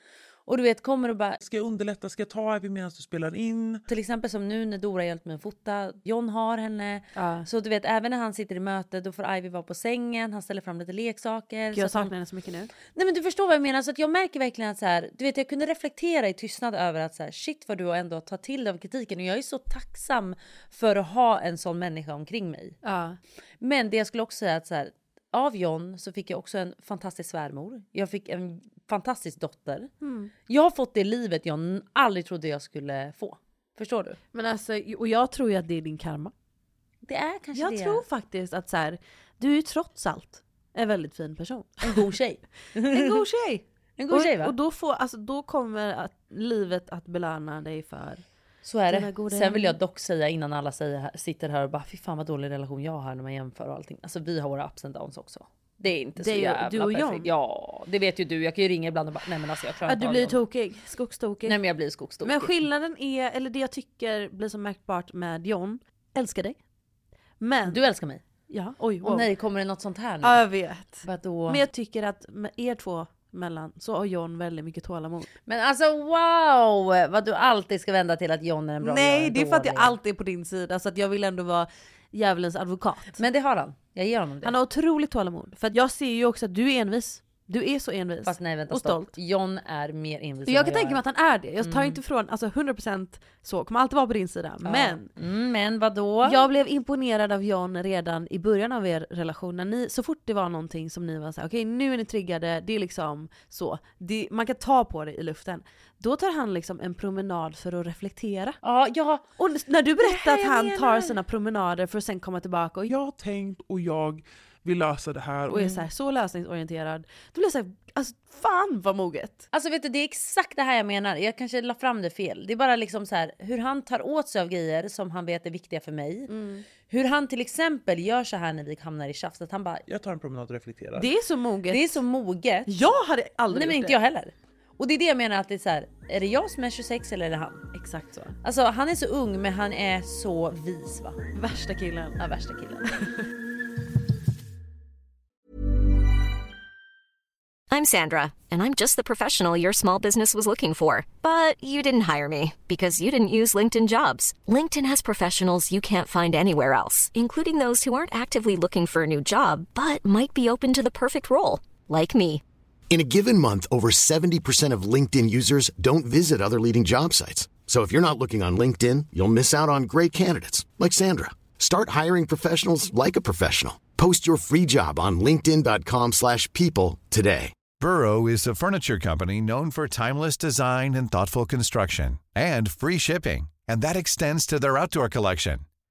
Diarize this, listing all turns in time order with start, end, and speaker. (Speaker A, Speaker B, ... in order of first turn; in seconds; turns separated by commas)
Speaker A: 0.5-1.4, Speaker B: 1.4-3.8, Speaker A: 3.9-12.1, Speaker C: 7.2-7.5, Speaker C: 11.7-12.7, Speaker A: 12.9-22.8, Speaker C: 22.8-23.2, Speaker A: 23.6-29.9, Speaker C: 30.0-30.3, Speaker A: 30.5-34.2, Speaker C: 34.3-36.3, Speaker A: 37.1-38.0, Speaker C: 37.5-42.1, Speaker A: 41.8-43.2, Speaker C: 42.8-48.2, Speaker A: 44.0-44.5, Speaker A: 48.6-60.4, Speaker C: 48.9-49.8, Speaker C: 56.2-57.3, Speaker C: 59.9-61.6, Speaker A: 61.5-62.6, Speaker C: 62.2-66.6, Speaker C: 67.4-67.8, Speaker A: 67.7-68.2, Speaker C: 68.5-69.3, Speaker A: 69.0-70.4, Speaker C: 70.2-75.3, Speaker A: 71.0-71.6, Speaker A: 75.5-80.0, Speaker C: 78.8-83.2, Speaker A: 83.2-84.5, Speaker C: 84.4-89.1, Speaker A: 88.2-91.0, Speaker C: 90.5-95.1, Speaker A: 91.6-92.0, Speaker A: 94.7-96.5, Speaker C: 96.2-108.6, Speaker A: 108.6-109.2, Speaker C: 109.4-112.9, Speaker A: 110.0-111.2, Speaker B: 112.9-115.8, Speaker C: 115.5-119.5, Speaker A: 119.5-126.3, Speaker C: 126.3-126.7, Speaker A: 126.9-129.8, Speaker B: 129.9-131.1, Speaker C: 131.0-132.0, Speaker A: 131.7-132.7, Speaker C: 132.7-134.0, Speaker A: 133.5-137.7, Speaker C: 137.7-138.3, Speaker A: 138.4-141.2, Speaker C: 141.3-142.2, Speaker A: 142.2-142.9, Speaker D: 147.7-162.4, Speaker E: 162.9-177.6, Speaker F: 177.8-185.7